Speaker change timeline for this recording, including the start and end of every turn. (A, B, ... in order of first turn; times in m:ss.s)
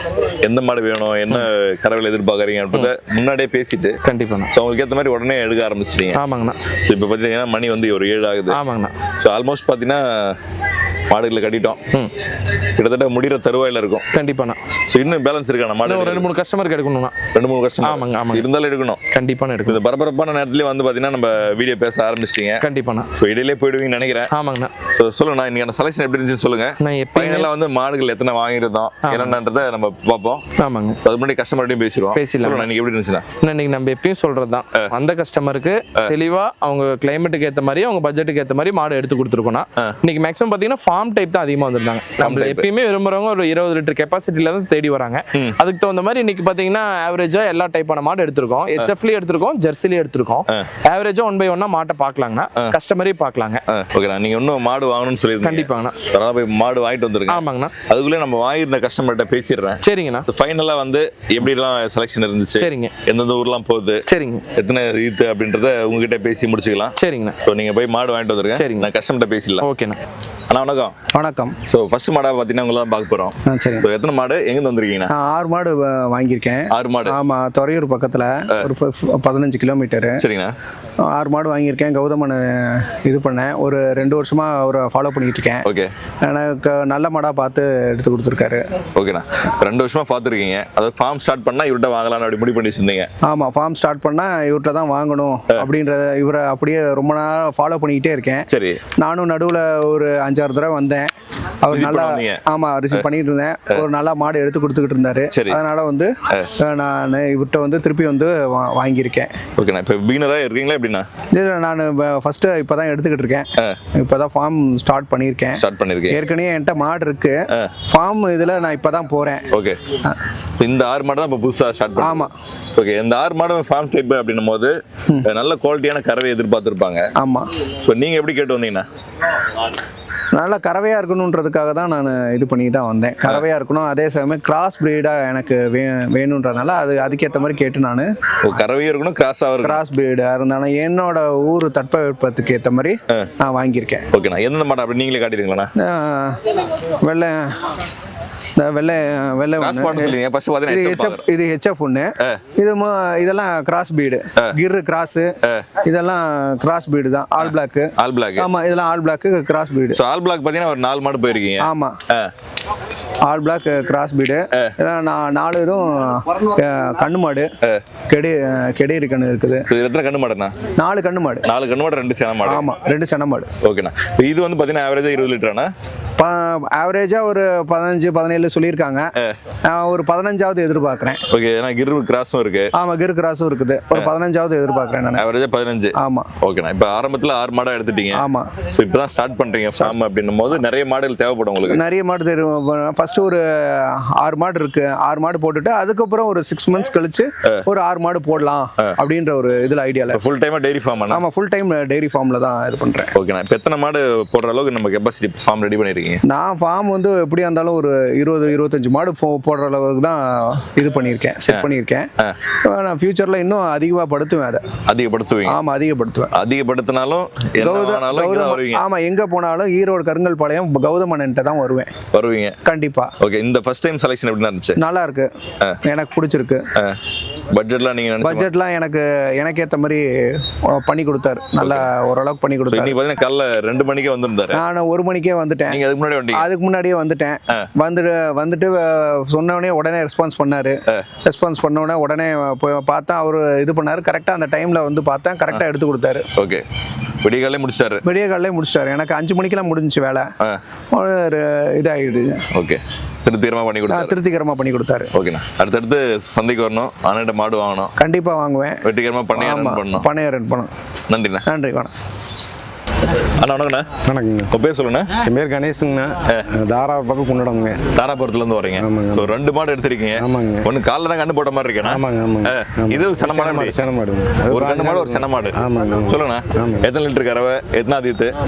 0:00.4-0:04.0 A
0:04.0-0:04.5 B
0:04.5-0:06.2 A
0:06.1-0:06.6 B
0:06.8-0:08.6 A
0:08.5-0:08.9 B
0:09.2-0:10.4 A
0:11.1-0:11.8 A
0:12.8-0:14.0 A
0:14.1-0:14.6 B
0:14.9-0:16.3 A
0:15.8-0:17.2 B
0:17.3-0:19.0 A
0:17.8-0:18.4 B
0:19.1-0:19.8 B
0:19.7-0:22.6 A
0:22.6-0:23.1 B
0:23.2-0:24.3 A
0:24.3-0:24.7 B
0:24.9-0:30.4 A
0:26.8-0:27.5 B
0:29.0-0:29.4 B
0:30.6-0:31.0 B
0:31.0-0:33.2 A
0:32.2-0:32.7 B
0:33.4-0:53.6 B
0:42.2-0:42.7 A
0:53.7-1:04.0 A
0:55.4-0:56.0 B
0:57.3-0:57.7 B
0:59.8-1:00.3 B
1:02.6-1:02.9 B
1:04.1-1:04.4 B
1:04.6-1:09.6 A
1:07.0-1:07.4 B
1:08.6-1:08.9 B
1:09.6-1:10.0 B
1:10.5-1:10.9 A
1:11.1-1:11.6 C
1:11.7-1:15.1 A
1:13.5-1:13.9 C
1:15.1-1:20.2 C
1:16.7-1:17.2 A
1:20.2-1:20.5 A
1:21.1-1:25.6 C
1:25.6-1:25.9 A
1:26.2-1:28.6 C
1:29.0-1:33.1 A
1:33.2-1:38.5 C
1:38.5-1:38.8 A
1:39.0-1:41.1 C
1:41.6-1:46.1 C
1:41.7-1:43.0 A
1:45.3-1:45.6 A
1:46.6-1:49.3 C
1:49.6-1:51.0 A
1:51.3-1:57.4 C
1:55.6-1:56.2 A
1:57.9-1:59.4 C
1:59.5-1:59.8 A
2:00.6-2:04.7 A
2:02.0-2:02.3 C
2:05.2-2:07.0 A
2:07.2-2:07.4 C
2:07.8-2:08.8 A
2:10.3-2:18.6 C
2:18.4-2:19.8 A
2:19.6-2:24.1 C
2:24.1-2:25.7 A
2:25.8-2:26.4 C
2:27.0-2:27.5 C
2:28.6-2:35.3 C
2:29.6-2:31.2 A
2:35.8-2:40.0 C
2:37.4-2:38.5 A
2:39.9-2:42.3 A
2:41.6-2:41.9 C
2:43.3-2:47.5 C
2:48.1-2:49.7 C
2:49.7-2:50.5 A
2:50.8-2:51.5 C
2:51.4-2:52.8 A
2:52.4-2:53.5 C
2:53.6-2:55.7 A
2:56.2-2:59.0 C
2:59.7-3:01.2 C
3:01.3-3:02.7 A
3:02.8-3:05.2 C
3:05.2-3:11.8 A
3:06.0-3:06.3 C
3:08.1-3:08.5 C
3:11.6-3:20.2 C
3:20.1-3:21.2 A
3:21.1-3:23.1 C
3:23.1-3:26.2 A
3:26.3-3:32.1 C
3:32.7-3:34.6 C
3:34.9-3:35.6 A
3:35.4-3:36.3 C
3:36.3-3:38.8 A
3:37.6-3:41.9 C
3:42.1-3:42.5 A
3:42.6-3:43.1 C
3:43.2-3:44.8 A
3:44.8-3:45.3 C
3:45.8-3:46.6 C
3:47.5-3:48.5 A
3:48.2-3:50.0 C
3:50.7-3:53.0 C
3:51.6-3:51.9 A
3:52.7-3:54.6 A
3:54.5-3:55.8 C
3:55.7-3:56.4 A
3:56.3-4:06.2 C
4:06.4-4:06.6 A
4:07.2-4:08.0 A
4:08.0-4:10.2 C
4:10.9-4:12.4 C
4:12.5-4:14.2 A
4:13.9-4:15.1 C
4:15.1-4:17.9 A
4:18.0-4:18.8 C
4:18.8-4:20.1 A
4:19.3-4:20.7 C
4:21.1-4:21.4 A
4:21.5-4:21.9 C
4:23.4-4:23.9 A
4:24.0-4:24.5 D
4:24.5-4:25.1 A
4:25.2-4:27.8 D
4:27.9-4:33.8 A
4:28.8-4:29.3 D
4:30.2-4:30.7 D
4:31.8-4:36.9 D
4:34.5-4:35.6 A
4:36.1-4:38.3 A